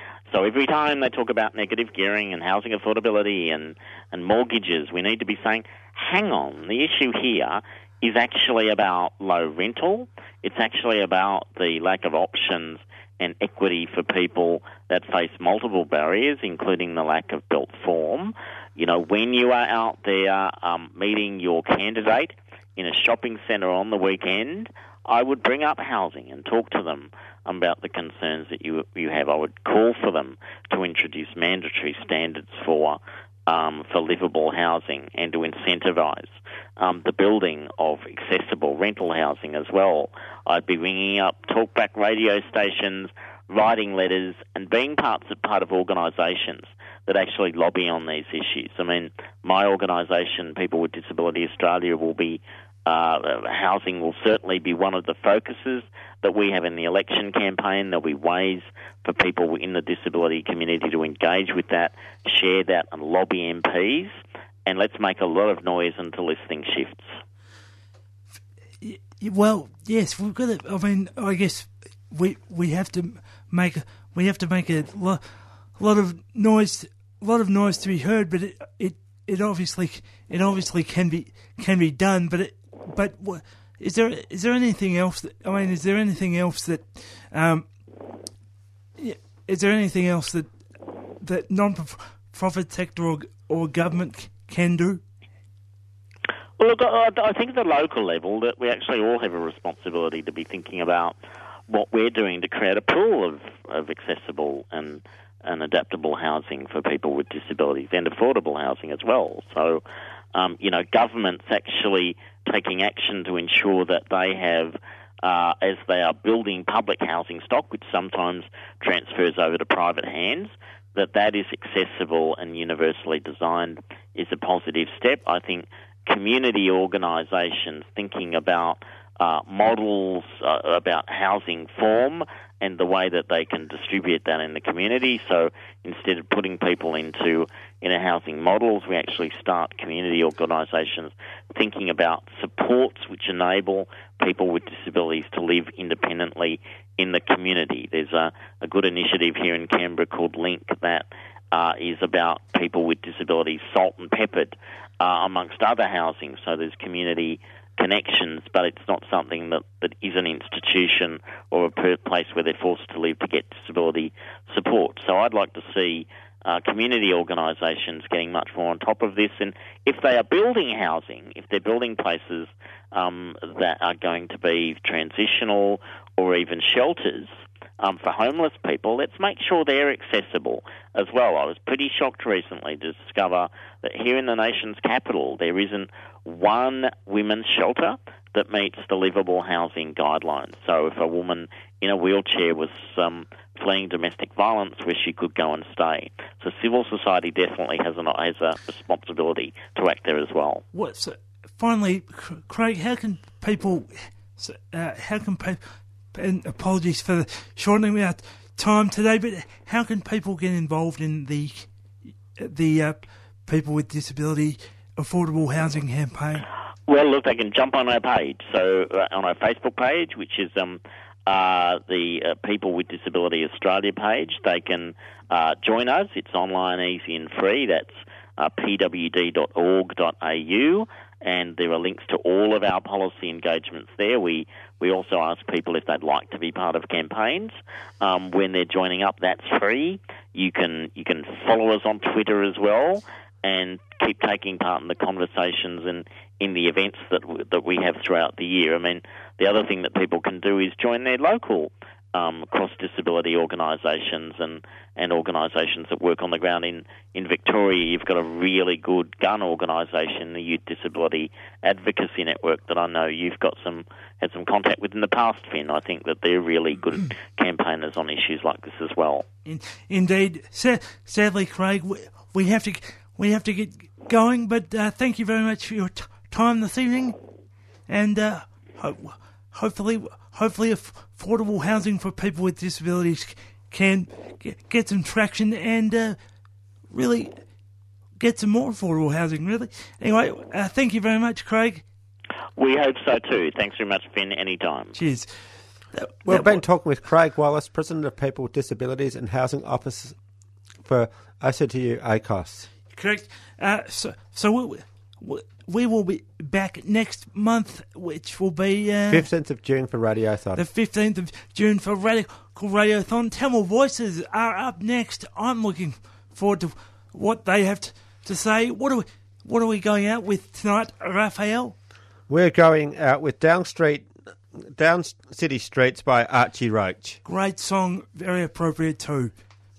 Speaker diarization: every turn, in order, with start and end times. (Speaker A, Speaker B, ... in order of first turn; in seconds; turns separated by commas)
Speaker A: 0.3-67.1, Speaker B: 68.8-87.7, Speaker B: 89.0-90.5, Speaker B: 91.2-95.0, Speaker A: 96.6-101.2, Speaker A: 101.7-109.8, Speaker A: 110.3-200.6, Speaker B: 200.7-211.7, Speaker B: 212.4-216.4, Speaker A: 216.9-269.2, Speaker B: 269.4-277.2, Speaker B: 277.9-286.2, Speaker B: 286.9-287.3, Speaker B: 288.2-291.8, Speaker A: 292.6-294.9, Speaker B: 294.9-295.3, Speaker B: 295.9-296.6, Speaker C: 296.2-300.2, Speaker C: 300.8-302.7, Speaker B: 302.9-309.3, Speaker C: 309.1-310.6, Speaker B: 310.5-321.7, Speaker C: 322.3-327.2, Speaker B: 327.2-329.3